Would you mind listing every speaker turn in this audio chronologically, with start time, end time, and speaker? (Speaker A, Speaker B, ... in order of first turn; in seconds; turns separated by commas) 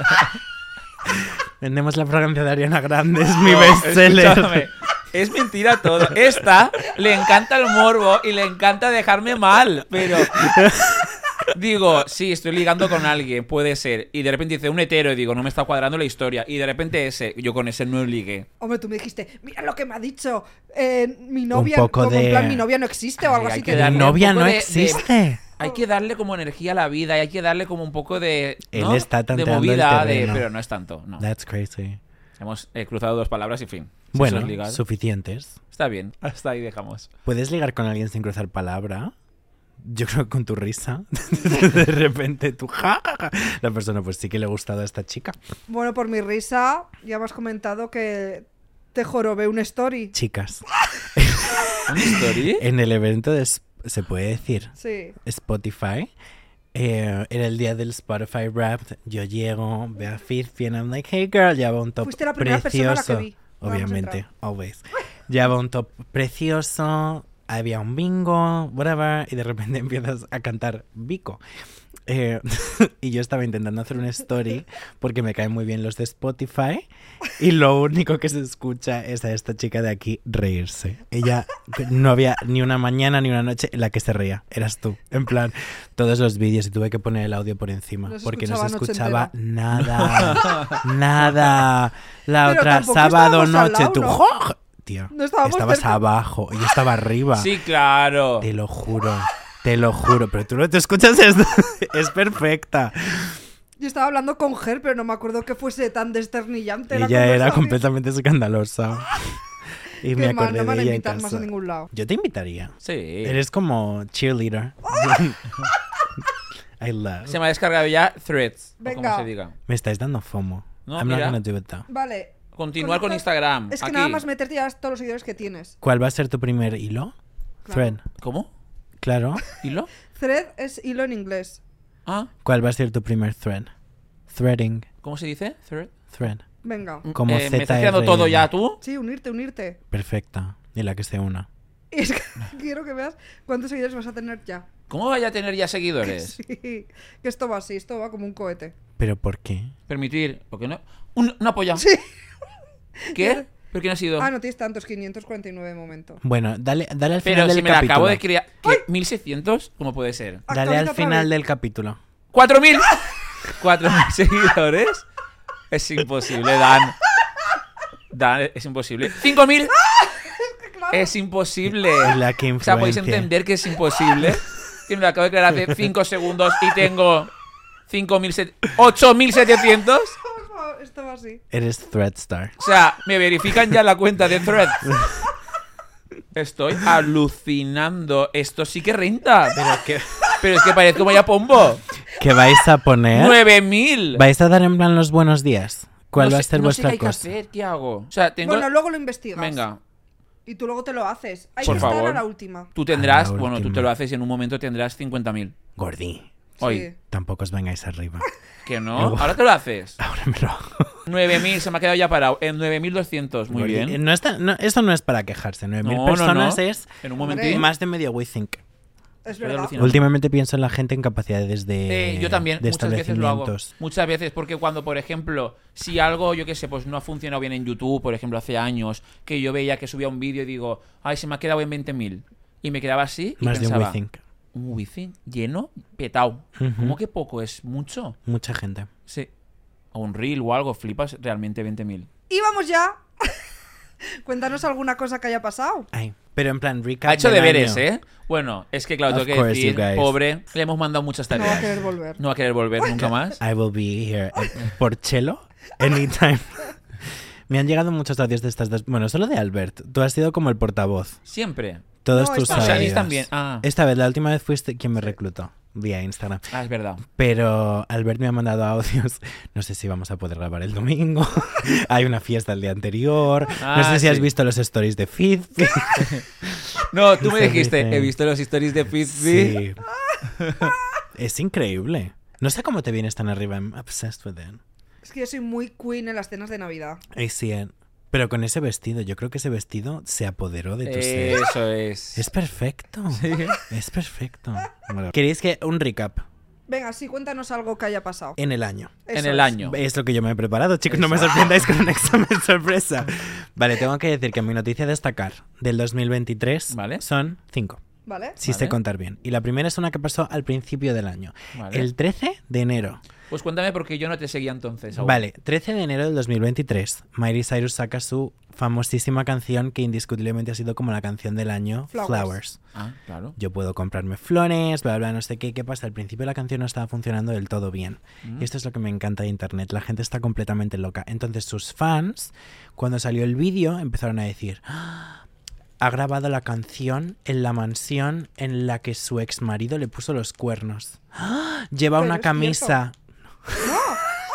Speaker A: 1.1-4.7, Speaker B: 3.4-10.6, Speaker A: 10.3-11.1, Speaker B: 11.5-18.5, Speaker C: 18.6-24.2, Speaker A: 21.5-22.6, Speaker B: 23.2-25.1, Speaker A: 23.7-25.4, Speaker B: 25.6-31.2, Speaker A: 28.7-30.5, Speaker A: 31.2-32.0, Speaker B: 32.4-34.8, Speaker A: 34.1-35.6, Speaker B: 35.7-37.1, Speaker A: 37.2-39.1, Speaker A: 39.8-45.4, Speaker C: 45.7-50.1, Speaker A: 50.1-50.6, Speaker A: 51.1-56.1, Speaker B: 51.9-52.6, Speaker C: 54.8-55.1, Speaker A: 56.7-71.4, Speaker C: 62.0-64.2, Speaker A: 72.1-97.5, Speaker C: 88.1-89.3, Speaker B: 89.8-90.8, Speaker C: 92.4-94.2, Speaker C: 95.1-96.0, Speaker B: 97.3-98.5, Speaker A: 98.4-103.4, Speaker C: 103.8-107.8, Speaker A: 106.9-109.4, Speaker A: 110.0-115.5, Speaker C: 110.1-111.9, Speaker B: 112.8-113.4, Speaker A: 116.8-117.4, Speaker B: 117.3-119.5, Speaker C: 118.8-119.3, Speaker A: 119.7-121.8, Speaker B: 120.8-121.4, Speaker C: 121.9-125.7, Speaker B: 122.5-124.2, Speaker A: 125.8-127.1, Speaker C: 127.6-128.0, Speaker A: 127.7-128.0, Speaker B: 128.2-128.5, Speaker A: 129.0-129.4, Speaker B: 129.6-129.9, Speaker C: 130.1-131.6, Speaker A: 132.4-133.7, Speaker A: 134.3-134.8, Speaker B: 135.0-135.9, Speaker A: 136.1-136.4, Speaker C: 136.6-137.1, Speaker B: 137.0-138.8, Speaker A: 137.1-138.5, Speaker C: 138.8-139.8, Speaker A: 139.9-141.5, Speaker C: 141.9-144.7, Speaker B: 144.9-146.4, Speaker C: 146.1-148.7, Speaker A: 149.0-149.7, Speaker B: 149.9-151.8, Speaker C: 151.8-152.1, Speaker C: 153.0-153.4, Speaker B: 153.1-154.3, Speaker C: 154.2-156.2, Speaker A: 156.2-158.2, Speaker B: 157.2-160.4, Speaker C: 160.5-161.3, Speaker A: 160.5-162.0, Speaker B: 162.3-165.0, Speaker B: 165.7-167.0, Speaker B: 168.1-169.8, Speaker C: 170.0-171.1, Speaker B: 170.9-177.3, Speaker A: 172.0-173.3, Speaker B: 177.9-180.2, Speaker C: 180.2-181.4, Speaker A: 181.5-182.5, Speaker B: 182.6-184.9, Speaker A: 184.8-185.2, Speaker B: 186.3-189.6, Speaker A: 189.5-190.3, Speaker B: 190.4-191.8, Speaker A: 192.1-193.4, Speaker B: 193.1-194.2, Speaker A: 194.1-197.3, Speaker B: 196.2-198.7, Speaker C: 198.4-199.6, Speaker B: 199.3-199.8, Speaker C: 200.4-202.7, Speaker B: 201.6-205.5, Speaker A: 201.6-201.9, Speaker A: 202.9-203.9, Speaker A: 205.8-206.3, Speaker C: 206.6-206.9, Speaker B: 206.6-206.9, Speaker A: 207.1-208.2, Speaker B: 208.6-210.0, Speaker A: 208.9-209.4, Speaker A: 210.0-211.0, Speaker B: 211.1-214.0, Speaker A: 213.5-218.6, Speaker B: 215.8-217.7, Speaker C: 217.2-217.6, Speaker C: 219.2-219.8, Speaker B: 219.4-220.1, Speaker A: 219.8-223.7, Speaker B: 221.9-234.0, Speaker A: 233.4-234.2, Speaker B: 234.5-238.2, Speaker A: 236.6-237.0, Speaker A: 238.2-238.9, Speaker B: 239.9-242.1, Speaker C: 242.3-243.4, Speaker C: 244.2-245.9, Speaker A: 245.9-247.8, Speaker B: 247.1-253.4, Speaker A: 249.1-250.2, Speaker C: 251.3-252.2, Speaker A: 253.0-256.7, Speaker A: 257.5-261.2, Speaker B: 261.3-261.8, Speaker A: 262.0-266.5, Speaker C: 262.1-263.0, Speaker B: 262.5-263.6, Speaker B: 266.5-267.0, Speaker A: 267.0-278.1, Speaker B: 273.6-274.3, Speaker B: 275.9-276.2, Speaker B: 276.9-279.6, Speaker A: 279.1-279.8, Speaker B: 280.4-280.7, Speaker A: 281.1-284.6, Speaker C: 285.0-287.0, Speaker A: 287.1-291.5, Speaker B: 290.8-292.3, Speaker A: 292.1-296.2, Speaker B: 293.1-293.6, Speaker C: 296.7-298.4, Speaker A: 298.4-299.0, Speaker C: 299.1-299.6, Speaker B: 299.1-299.8, Speaker A: 299.6-307.8, Speaker B: 300.9-301.8, Speaker B: 306.7-307.0, Speaker C: 308.1-308.4, Speaker A: 308.4-313.0, Speaker B: 308.4-308.8, Speaker B: 311.5-311.9, Speaker B: 313.3-315.2, Speaker A: 314.9-322.6, Speaker C: 321.9-322.4, Speaker B: 322.7-323.3, Speaker A: 323.4-335.2, Speaker A: 335.8-343.8, Speaker C: 342.0-342.8, Speaker C: 343.6-344.0